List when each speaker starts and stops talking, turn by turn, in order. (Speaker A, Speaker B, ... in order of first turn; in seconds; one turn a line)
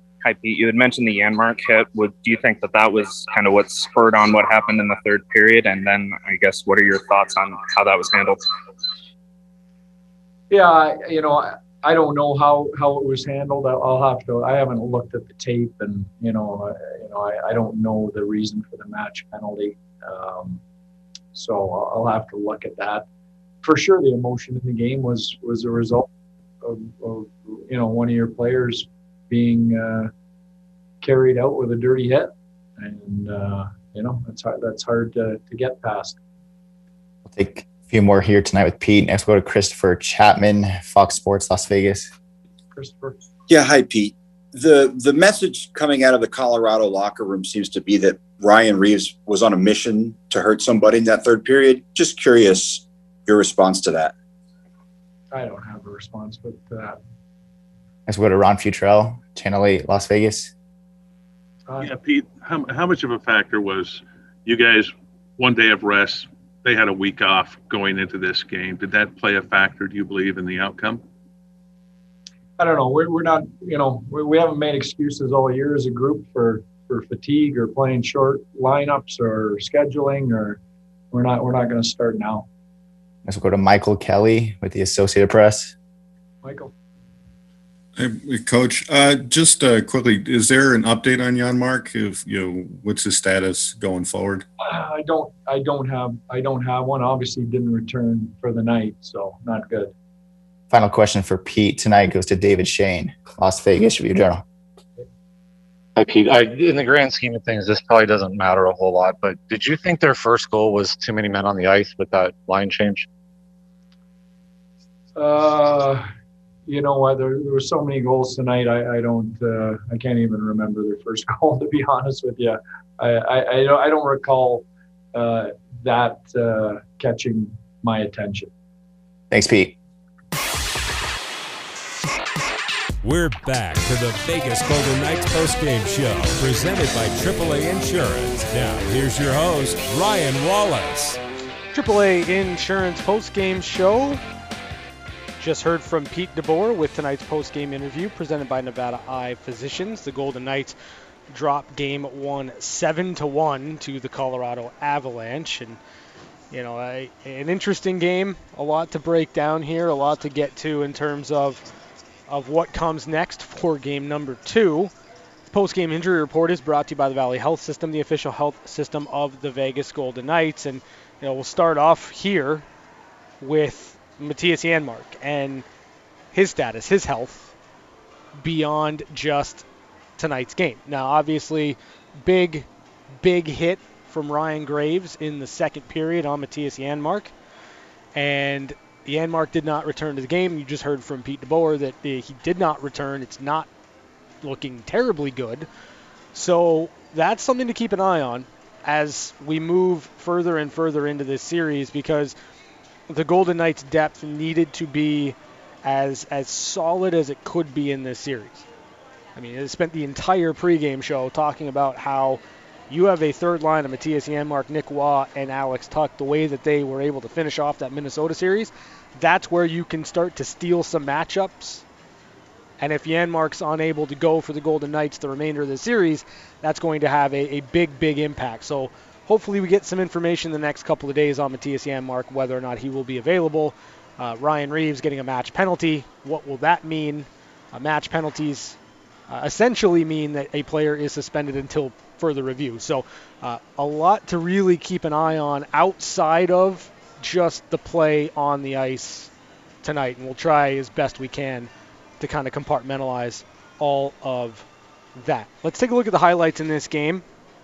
Speaker A: 0.2-8.4
Speaker B: 10.5-20.6
Speaker B: 21.3-23.1
Speaker B: 23.6-26.1
Speaker B: 26.6-30.1
Speaker B: 31.0-36.2
Speaker C: 37.2-42.1
Speaker B: 42.7-43.2
Speaker D: 43.5-54.1
Speaker B: 55.3-57.0
Speaker C: 58.1-60.5
Speaker E: 61.8-71.0
Speaker B: 72.6-80.6
Speaker B: 81.1-82.5
Speaker C: 83.2-85.7
Speaker B: 86.4-86.7
Speaker F: 88.0-94.5
Speaker B: 94.6-99.9
Speaker C: 100.7-104.4
Speaker G: 106.0-113.1
Speaker B: 115.2-116.0
Speaker B: 116.7-128.5
Speaker C: 129.3-129.8
Speaker H: 133.0-141.2
Speaker I: 141.7-144.2
Speaker I: 145.4-150.8
Speaker I: 151.3-155.8
Speaker I: 156.5-161.6
Speaker I: 162.3-164.9
Speaker I: 165.5-172.7
Speaker I: 173.4-175.7
Speaker I: 176.3-177.5
Speaker I: 178.4-179.7
Speaker I: 180.2-182.7
Speaker I: 183.2-187.3
Speaker I: 188.2-193.7
Speaker I: 194.4-195.7
Speaker I: 196.3-202.4
Speaker I: 203.1-208.7
Speaker I: 209.4-221.8
Speaker I: 222.8-238.8
Speaker I: 239.3-249.3
Speaker I: 249.8-257.2